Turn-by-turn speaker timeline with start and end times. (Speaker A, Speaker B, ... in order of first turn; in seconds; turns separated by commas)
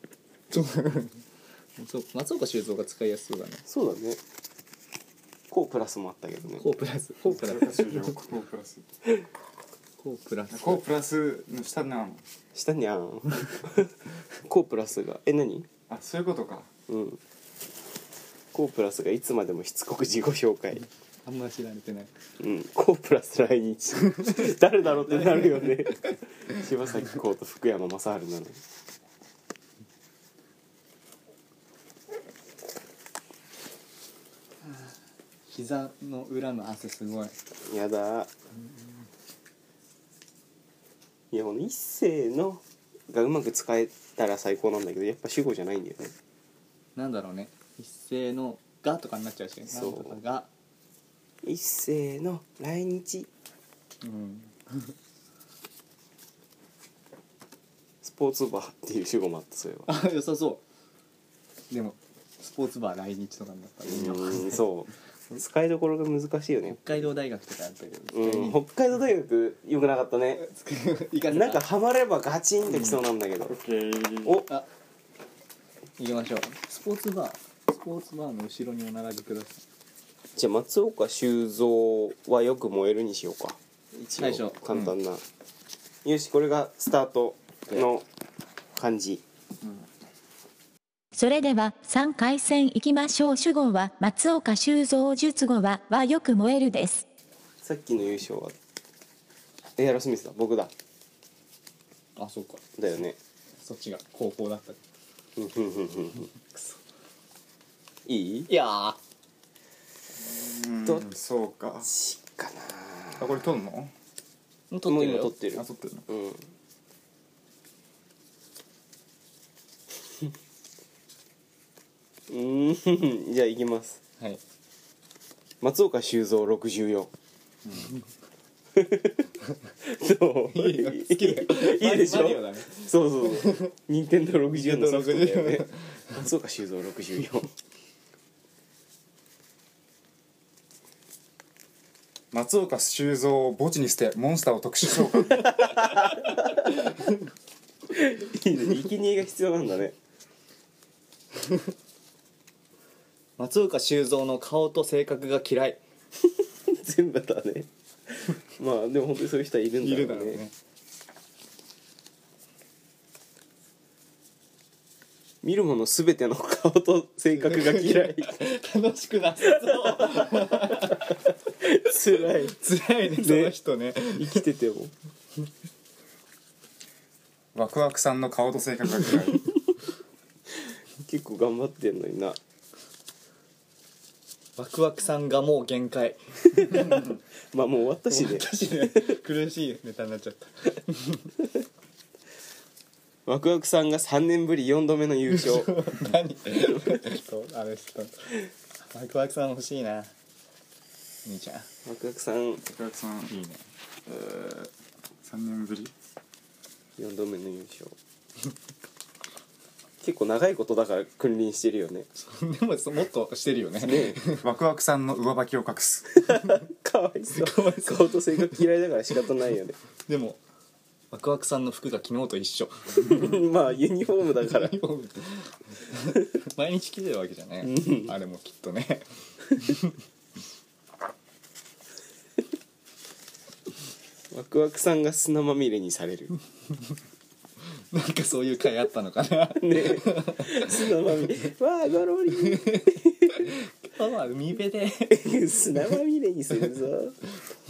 Speaker A: 0.5-1.2, Speaker A: 1.8-3.6, Speaker B: 3.7-4.2, Speaker B: 5.5-6.7, Speaker A: 6.6-8.1, Speaker C: 7.3-8.8, Speaker A: 10.0-10.8, Speaker C: 10.5-12.2, Speaker B: 12.5-15.7, Speaker C: 15.9-16.7, Speaker B: 16.9-17.2, Speaker B: 18.5-20.9, Speaker A: 21.2-22.1, Speaker B: 22.4-28.6, Speaker A: 25.2-25.6, Speaker A: 34.6-34.9, Speaker A: 35.5-37.3, Speaker B: 37.7-38.3, Speaker B: 41.3-46.1, Speaker A: 47.0-50.5, Speaker B: 49.7-50.2, Speaker B: 51.4-53.3, Speaker A: 54.0-54.9, Speaker B: 58.0-59.9, Speaker A: 59.9-60.6, Speaker A: 61.7-64.6, Speaker B: 63.9-67.1, Speaker A: 66.7-68.6, Speaker B: 68.1-70.4, Speaker A: 70.4-71.6, Speaker B: 71.3-73.5, Speaker A: 72.7-73.0, Speaker C: 73.5-74.4, Speaker A: 76.0-79.6, Speaker B: 80.4-85.2, Speaker A: 84.2-84.9, Speaker B: 86.0-88.1, Speaker B: 88.8-89.2, Speaker D: 91.1-97.0, Speaker B: 97.6-98.5, Speaker B: 99.8-100.7, Speaker A: 102.2-102.6, Speaker B: 102.8-103.2, Speaker A: 103.6-104.8, Speaker B: 105.4-106.3, Speaker B: 108.1-108.5, Speaker A: 108.5-109.0, Speaker C: 110.2-111.9, Speaker B: 111.8-113.4, Speaker C: 113.2-113.9, Speaker A: 114.7-115.3, Speaker B: 114.9-116.4, Speaker C: 115.5-116.1, Speaker B: 122.3-124.0, Speaker B: 125.6-127.1, Speaker C: 127.7-127.9, Speaker B: 128.8-129.2, Speaker B: 129.8-137.5, Speaker A: 130.5-132.9, Speaker A: 134.5-135.8, Speaker C: 142.3-145.5, Speaker B: 145.4-146.7, Speaker B: 147.9-149.9, Speaker A: 153.4-155.8, Speaker B: 156.7-160.4, Speaker A: 159.8-160.5, Speaker B: 165.4-168.4, Speaker A: 167.4-171.2, Speaker B: 169.5-171.0, Speaker B: 171.6-173.5, Speaker A: 172.5-174.4, Speaker B: 174.1-174.9, Speaker C: 177.6-179.4, Speaker B: 181.1-182.4, Speaker A: 184.6-187.1, Speaker B: 186.6-189.1, Speaker A: 188.1-191.3, Speaker B: 193.3-195.8, Speaker A: 195.3-200.1, Speaker A: 201.2-201.7, Speaker B: 201.9-202.6, Speaker C: 202.6-203.3, Speaker A: 203.3-203.6, Speaker C: 204.1-204.7, Speaker C: 205.2-205.9, Speaker B: 207.0-207.9, Speaker B: 210.0-212.1, Speaker A: 212.3-214.4, Speaker B: 213.8-214.2, Speaker C: 214.4-216.2, Speaker B: 216.2-219.8, Speaker A: 217.3-218.6, Speaker A: 220.1-220.4, Speaker A: 221.1-223.5, Speaker B: 223.0-224.8, Speaker A: 224.5-229.9, Speaker B: 227.7-228.1, Speaker B: 234.3-236.3, Speaker A: 237.9-240.8, Speaker B: 239.6-243.5, Speaker A: 243.4-245.3, Speaker B: 245.1-247.2